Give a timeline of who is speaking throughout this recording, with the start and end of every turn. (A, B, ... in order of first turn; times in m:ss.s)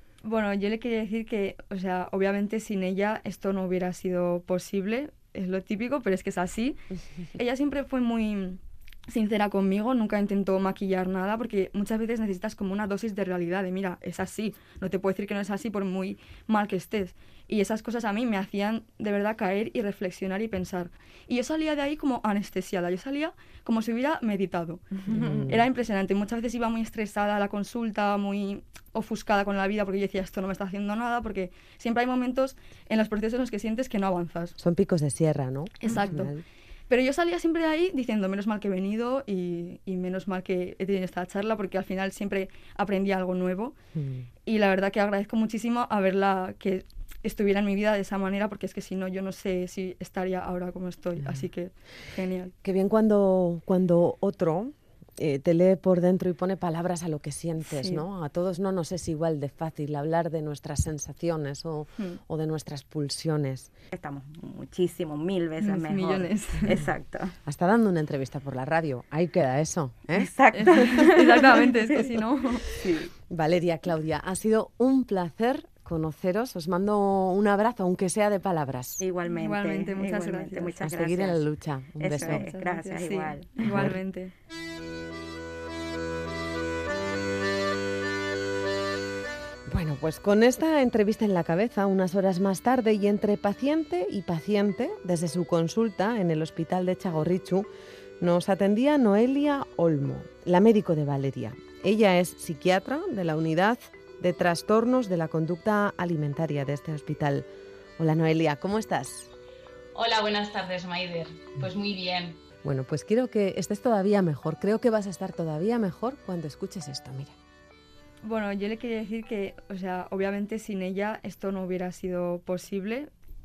0:00.2-0:34.6 A
0:25.1-0:25.7 B
0:34.6-0:36.4 B
0:35.8-0:36.3 A
0:36.9-0:43.8 A
0:44.0-0:44.3 B
0:44.5-0:52.6 A
0:51.2-0:51.5 B
0:52.6-1:03.7 B
0:57.6-0:58.1 A
1:03.9-1:07.4 C
1:05.6-1:06.8 A
1:07.4-1:10.3 B
1:10.2-1:11.7 C
1:10.6-1:12.7 A
1:12.7-1:13.1 C
1:13.3-1:19.0 B
1:19.0-1:21.4 C
1:19.3-1:20.8 A
1:20.8-1:22.5 B
1:22.0-1:23.9 C
1:22.2-1:24.3 A
1:23.7-1:24.0 B
1:29.7-1:37.7 B
1:38.2-1:47.5 B
1:48.0-1:49.3 B
1:50.0-1:52.4 D
1:52.6-1:57.4 B
1:58.2-2:03.1 A